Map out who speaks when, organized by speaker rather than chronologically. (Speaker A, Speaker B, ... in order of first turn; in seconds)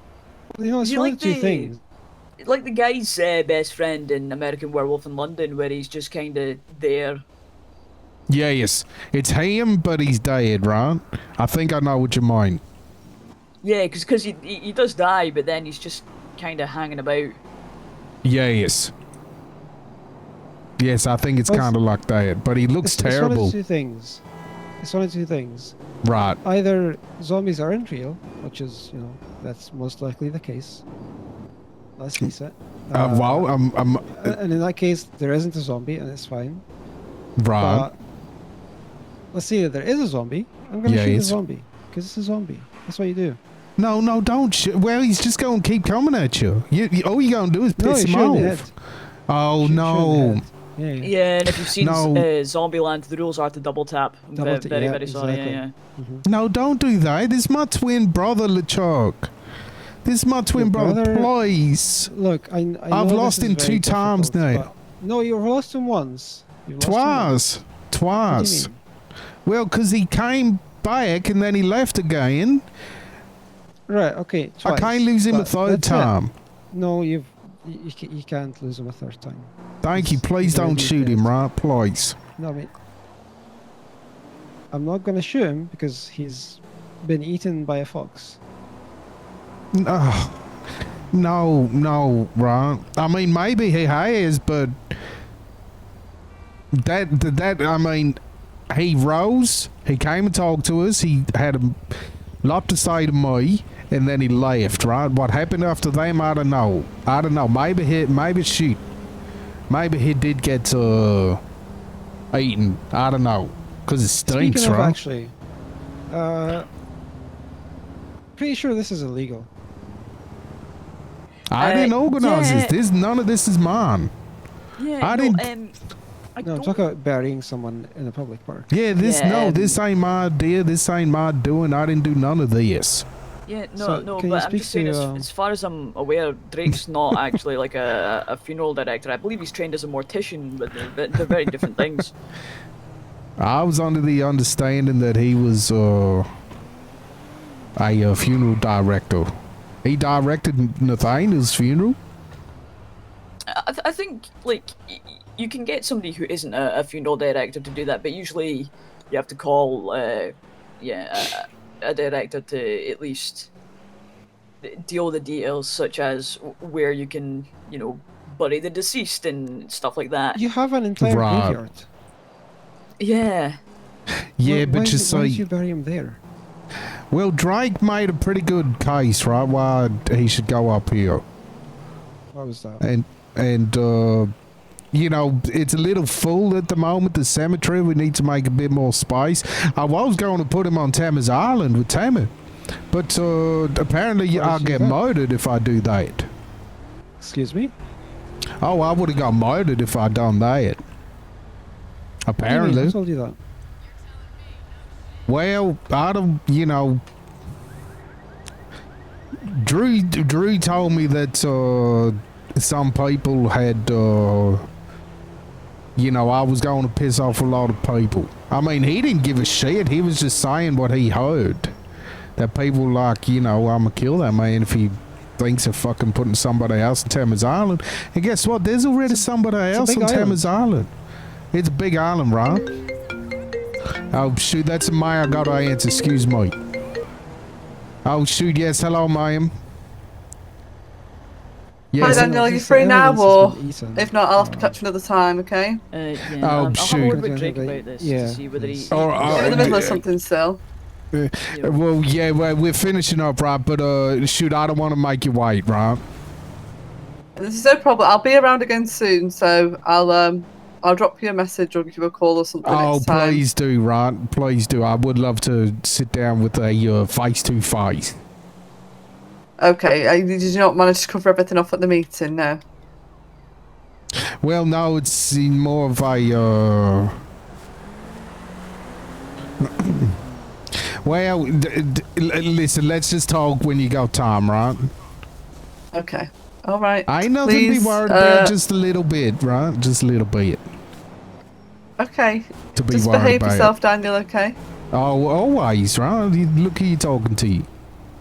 Speaker A: 0.5-1.8, 21.5-21.7, 22.8-24.2, 24.8-25.8, 26.4-30.8, 32.0-36.6, 37.6-37.9, 39.3-43.4, 47.8-48.7, 49.6-51.1, 54.4-56.2, 60.5-61.3, 62.1-67.5, 68.2-68.8, 73.9-76.2, 76.7-81.3, 82.4-82.7, 84.7-88.4, 114.3-115.3, 116.1-116.7, 118.4-119.5, 126.4-128.7, 133.8-135.3, 170.3-171.9, 174.4-176.2, 182.3-182.8, 194.3-195.0, 197.2-197.7, 202.4-203.4, 229.1-230.5, 242.0-244.8, 247.1-249.6
Speaker B: 0.8-1.7, 2.4-7.2, 13.6-17.3, 51.0-55.7, 121.6-122.8, 124.8-125.8, 126.3-126.8, 129.0-129.8, 133.5-142.1, 153.5-163.5, 164.6-170.4, 173.0-173.6, 245.9-250.0, 251.5-251.8
Speaker C: 8.3-12.6, 18.2-18.9, 20.8-23.5, 26.0-26.4, 32.9-34.4, 37.4-37.9, 40.8-41.4, 43.8-48.7, 49.3-50.5, 51.5-52.2, 56.2-59.3, 60.0-62.1, 62.9-64.6, 66.8-68.7, 69.4-72.6, 74.6-76.3, 79.8-82.2, 89.7-90.4, 91.1-94.9, 96.8-98.2, 98.7-108.8, 109.7-111.4, 112.3-115.0, 121.5-124.1, 125.0-125.5, 128.7-133.0, 143.4-146.3, 147.8-149.3, 149.8-152.0, 171.0-171.6, 174.4-175.4, 177.1-181.2, 182.8-184.3, 184.9-192.3, 192.9-196.3, 198.6-200.8, 202.2-202.9, 205.2-207.0, 209.4-214.7, 215.9-221.7, 222.4-230.9, 231.5-232.7, 234.1-236.5, 238.0-239.5, 241.9-242.3, 246.4-247.2, 248.9-250.0, 251.1-256.0, 262.6-268.2, 274.4-277.1, 279.6-280.2, 280.8-284.9, 287.1-290.6, 292.7-293.7, 294.9-297.7
Speaker D: 242.0-245.8, 249.3-250.6, 257.4-263.4, 269.6-272.6, 285.9-288.5, 292.0-294.6